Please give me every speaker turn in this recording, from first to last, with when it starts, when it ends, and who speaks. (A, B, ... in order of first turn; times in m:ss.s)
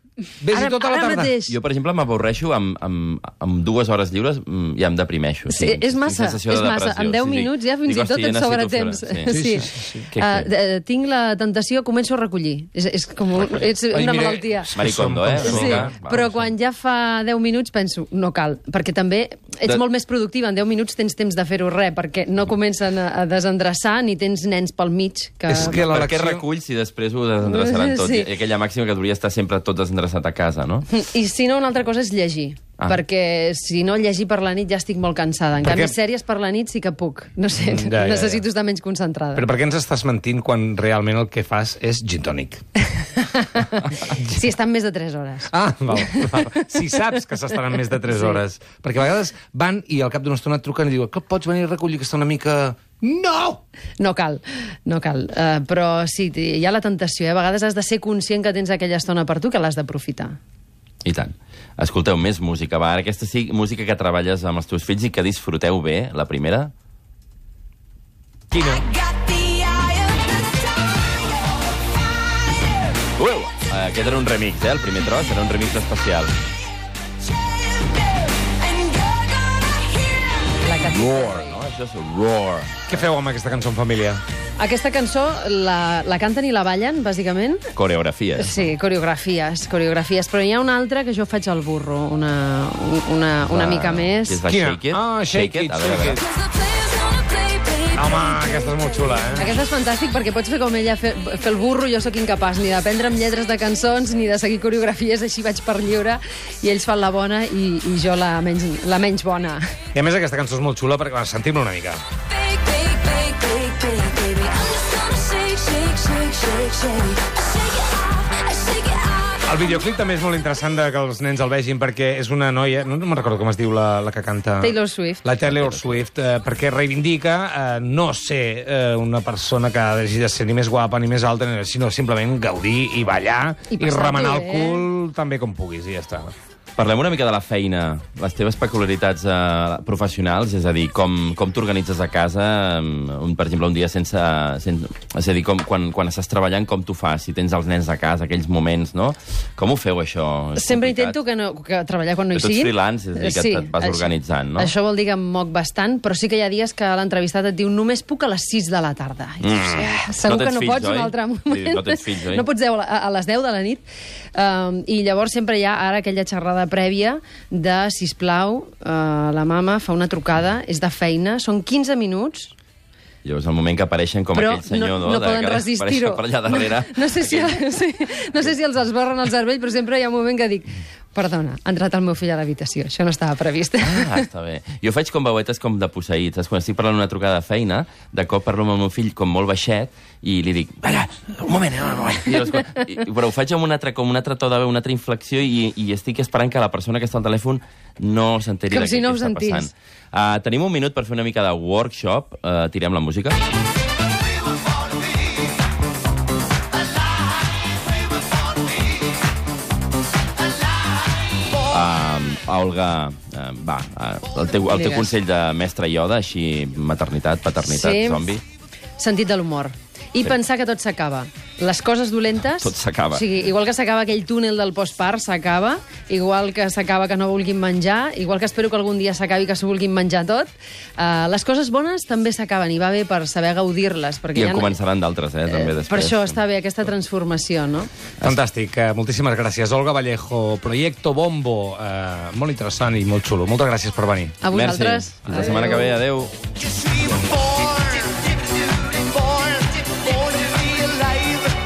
0:00.4-0:01.3 A
0:00.5-0:01.5 B
0:01.5-0:10.5 C
0:05.5-0:14.8 B
0:09.3-0:10.1 A
0:13.4-0:13.6 C
0:13.9-0:16.0 A
0:14.8-0:16.4 C
0:15.4-0:25.9 B
0:25.5-0:26.4 A
0:25.5-0:30.9 C
0:27.4-0:28.3 B
0:30.9-0:39.5 B
0:35.6-0:35.9 A
0:37.6-0:38.4 A
0:39.3-0:42.6 A
0:43.1-0:46.6 B
0:44.1-0:44.4 A
0:45.5-0:53.6 A
0:48.0-0:48.4 B
0:54.0-1:00.4 B
1:01.0-1:06.7 C
1:08.5-1:08.9 A
1:13.2-1:16.3 C
1:20.6-1:21.6 B
1:20.8-1:23.0 C
1:22.9-1:24.2 A
1:24.6-1:27.7 B
1:27.7-1:28.7 C
1:28.4-1:34.4 B
1:33.4-1:36.2 C
1:34.4-1:36.2 A
1:37.1-1:37.8 B
1:37.9-1:39.5 A
1:39.4-1:49.6 B
1:49.9-1:52.0 A
1:52.5-1:57.4 B
1:58.4-1:59.0 B
1:59.4-2:16.3 A
2:04.6-2:05.2 B
2:13.7-2:14.8 B
2:16.8-2:31.2 C
2:30.6-2:43.8 B
2:32.3-2:34.7 C
2:39.4-2:42.4 C
2:44.3-2:52.5 B
2:53.2-2:57.6 C
2:54.3-3:04.2 B
3:03.8-3:23.4 C
3:18.7-3:19.7 B
3:31.7-3:38.4 C
3:34.7-3:35.1 B
3:37.6-3:38.2 B
3:39.0-3:54.8 B
3:42.6-3:43.2 C
3:54.3-3:56.4 C
3:55.5-3:57.9 B
3:58.2-4:04.4 A
4:04.4-4:06.0 B
4:04.5-4:06.3 C
4:07.5-4:08.0 A
4:10.3-4:11.4 A